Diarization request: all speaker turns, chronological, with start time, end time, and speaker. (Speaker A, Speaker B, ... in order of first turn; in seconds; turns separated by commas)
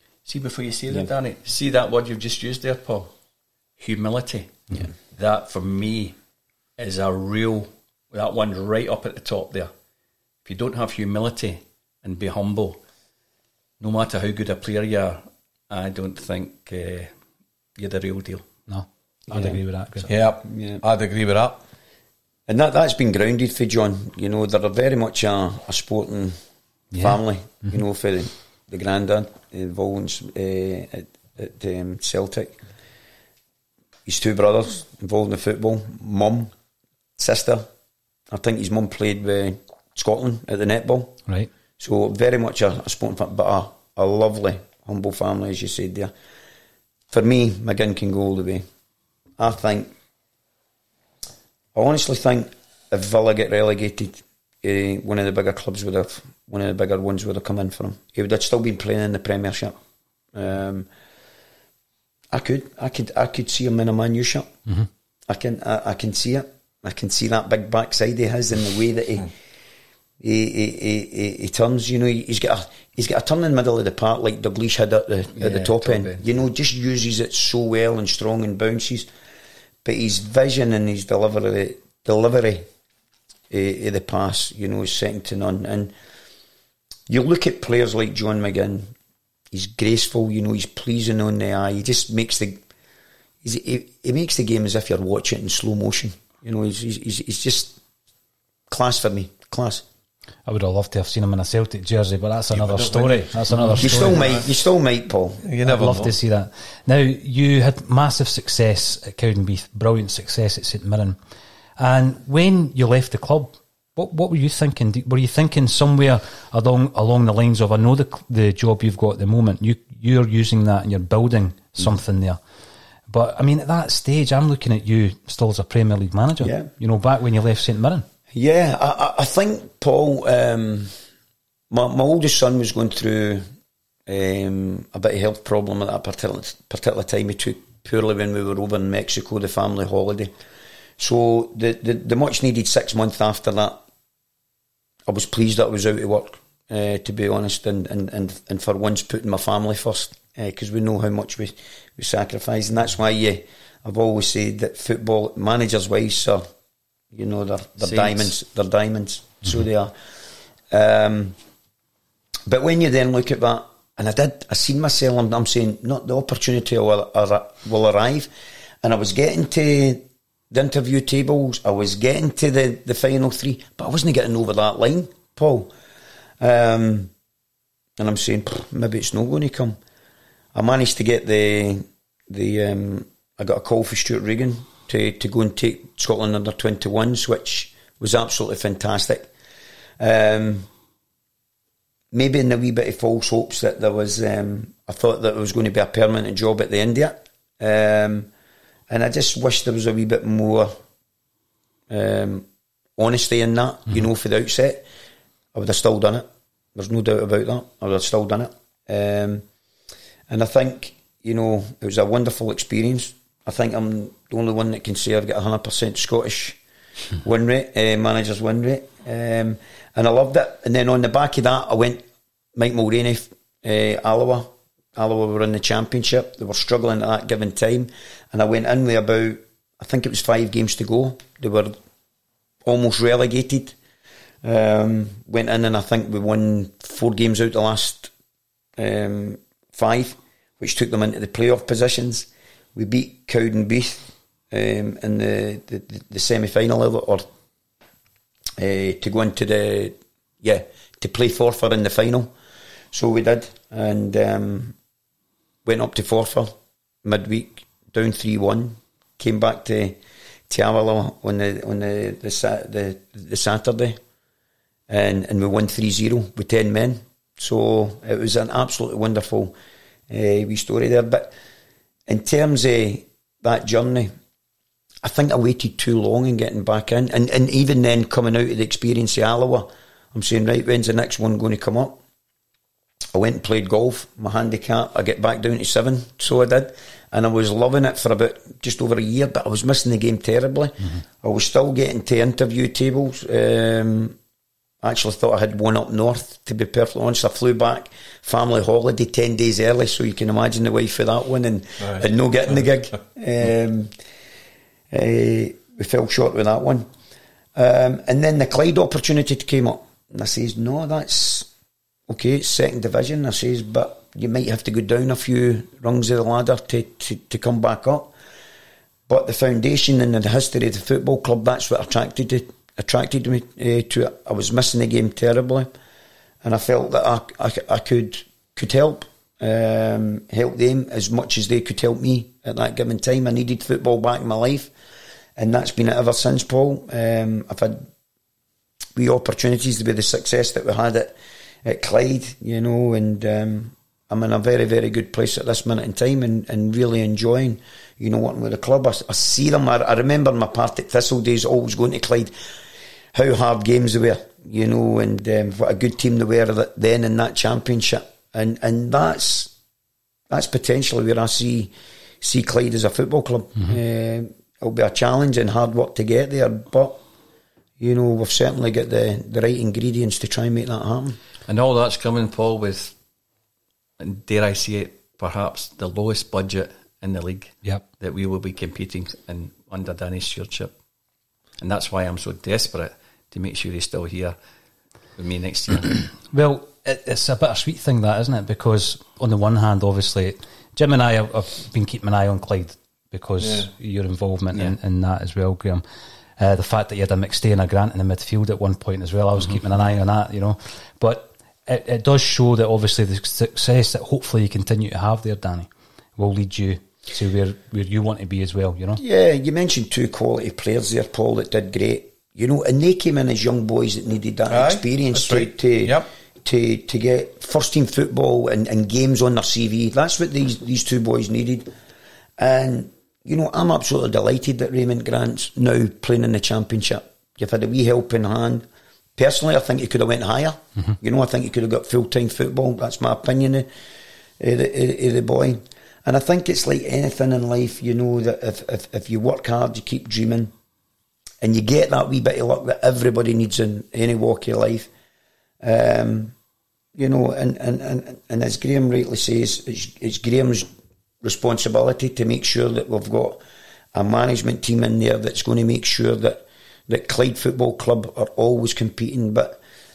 Speaker A: 0.2-3.1, Speaker A: 3.8-6.2, Speaker A: 6.8-9.7, Speaker A: 10.4-12.8, Speaker A: 13.8-17.1, Speaker A: 17.8-18.4, Speaker B: 18.7-20.1, Speaker C: 19.3-19.6, Speaker D: 20.1-21.6, Speaker C: 20.5-20.8, Speaker C: 22.5-26.4, Speaker B: 26.9-27.7, Speaker C: 27.0-32.6, Speaker C: 34.0-36.5, Speaker C: 37.2-37.7, Speaker C: 38.3-41.2, Speaker C: 41.8-46.1, Speaker C: 47.1-48.6, Speaker C: 49.4-49.9, Speaker C: 51.7-59.8, Speaker C: 60.3-60.9, Speaker C: 62.3-64.5, Speaker C: 65.3-69.3, Speaker C: 70.2-79.1, Speaker A: 75.3-76.2, Speaker C: 79.8-82.7, Speaker C: 83.5-85.9, Speaker C: 87.1-88.9, Speaker C: 89.5-92.6, Speaker C: 93.4-97.8, Speaker C: 98.7-99.8, Speaker B: 100.5-104.3, Speaker D: 102.5-104.5, Speaker C: 103.8-105.4, Speaker D: 105.4-106.1, Speaker B: 105.6-111.2, Speaker B: 111.8-122.4, Speaker B: 123.1-128.1, Speaker C: 126.4-126.7, Speaker C: 128.3-130.9, Speaker C: 131.7-133.4, Speaker C: 134.1-140.3, Speaker C: 141.0-143.8, Speaker C: 145.1-156.4, Speaker C: 157.1-159.9, Speaker A: 157.8-158.3, Speaker C: 160.7-161.3, Speaker C: 162.5-168.3, Speaker C: 168.8-175.7, Speaker C: 176.4-177.1, Speaker C: 178.0-179.8, Speaker C: 180.5-189.3, Speaker C: 190.0-190.7, Speaker C: 192.1-198.3, Speaker C: 198.9-200.8, Speaker C: 201.9-202.4, Speaker C: 203.0-204.8, Speaker C: 205.5-209.4, Speaker C: 210.3-216.6, Speaker C: 217.2-222.0, Speaker C: 222.5-231.8, Speaker C: 232.6-233.8, Speaker C: 234.4-238.1, Speaker C: 238.8-247.3, Speaker C: 248.6-252.3, Speaker C: 252.9-254.7, Speaker C: 255.6-260.0, Speaker C: 260.5-264.0, Speaker C: 264.9-269.5, Speaker C: 270.1-271.3, Speaker C: 272.1-274.1, Speaker C: 275.0-282.0, Speaker C: 283.1-294.1, Speaker C: 294.8-303.9, Speaker C: 304.9-306.9, Speaker C: 307.5-311.5, Speaker C: 312.1-318.1, Speaker C: 319.1-325.7, Speaker C: 326.4-334.7, Speaker C: 335.4-337.9, Speaker C: 338.9-341.1, Speaker C: 341.6-352.3, Speaker C: 353.1-359.5, Speaker C: 360.3-367.0, Speaker C: 367.8-371.2, Speaker A: 371.5-372.9, Speaker A: 374.0-380.7, Speaker A: 381.6-384.4, Speaker A: 385.1-386.1, Speaker B: 386.3-395.8, Speaker D: 393.4-393.7, Speaker B: 396.4-409.0, Speaker C: 409.0-421.7, Speaker D: 414.5-416.1, Speaker C: 422.4-428.6, Speaker C: 429.2-433.7, Speaker C: 434.4-440.5, Speaker C: 441.4-444.9, Speaker C: 445.6-446.3, Speaker C: 446.9-450.7, Speaker C: 451.2-453.4, Speaker C: 453.9-459.6